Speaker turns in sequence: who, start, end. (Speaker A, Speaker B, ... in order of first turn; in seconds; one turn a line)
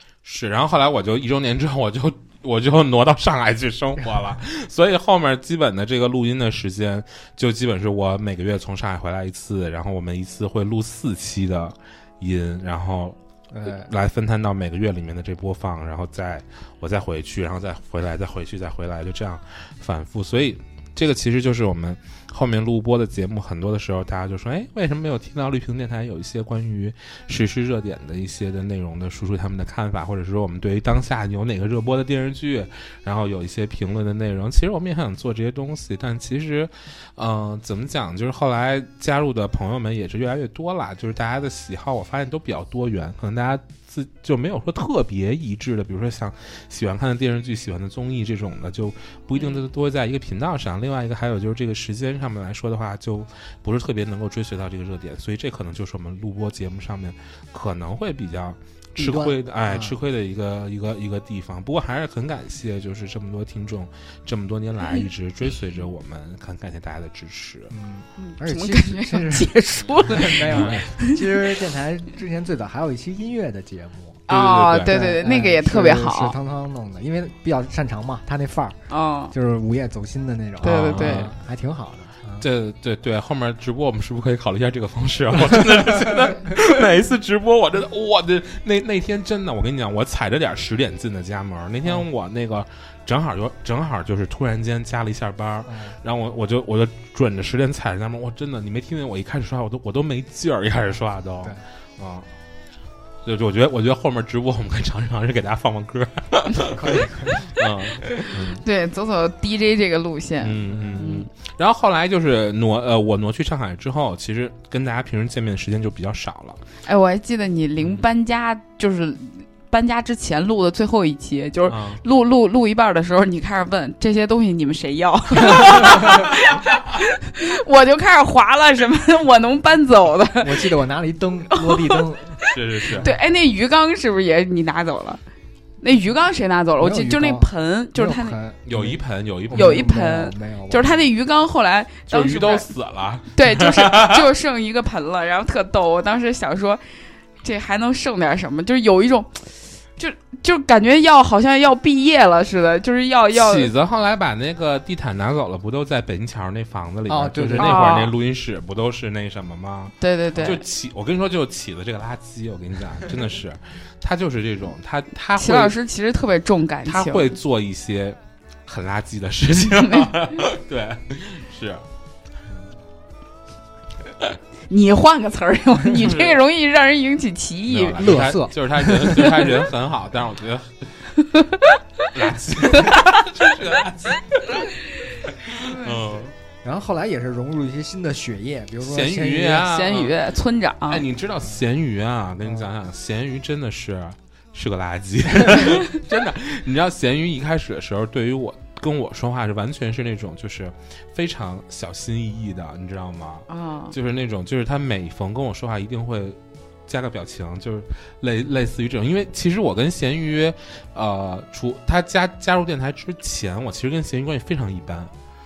Speaker A: 0.2-67.7
Speaker B: 13.5-13.9
Speaker B: 59.0-60.0
Speaker B: 67.7-69.5
Speaker C: 68.2-71.2
Speaker B: 70.1-74.2
Speaker A: 70.5-70.9
Speaker A: 74.3-74.9
Speaker C: 74.3-76.3
Speaker B: 74.8-78.8
Speaker C: 78.9-79.3
Speaker B: 79.3-82.5
Speaker C: 80.6-81.3
Speaker A: 80.6-81.3
Speaker A: 82.4-102.2
Speaker B: 95.7-96.0
Speaker A: 103.2-108.6
Speaker B: 106.6-107.5
Speaker C: 108.5-111.2
Speaker A: 110.4-116.6
Speaker B: 110.7-111.1
Speaker C: 116.8-130.7
Speaker A: 121.7-122.0
Speaker B: 130.4-132.4
Speaker C: 131.5-132.0
Speaker A: 132.5-133.1
Speaker C: 133.0-135.2
Speaker C: 135.8-138.3
Speaker B: 136.8-141.0
Speaker A: 138.7-139.8
Speaker C: 139.5-142.7
Speaker A: 142.1-144.2
Speaker C: 143.3-146.8
Speaker C: 147.4-153.7
Speaker A: 153.3-165.8
Speaker B: 157.1-158.0
Speaker C: 157.6-158.1
Speaker C: 160.0-160.6
Speaker C: 165.3-167.3
Speaker A: 166.8-171.8
Speaker C: 169.7-170.3
Speaker C: 174.7-178.2
Speaker A: 177.7-180.9
Speaker B: 177.9-179.5
Speaker C: 181.2-182.0
Speaker A: 182.1-186.3
Speaker C: 185.7-185.9
Speaker B: 186.6-189.7
Speaker A: 188.8-190.1
Speaker C: 189.6-191.0
Speaker A: 190.9-215.1
Speaker C: 203.5-203.9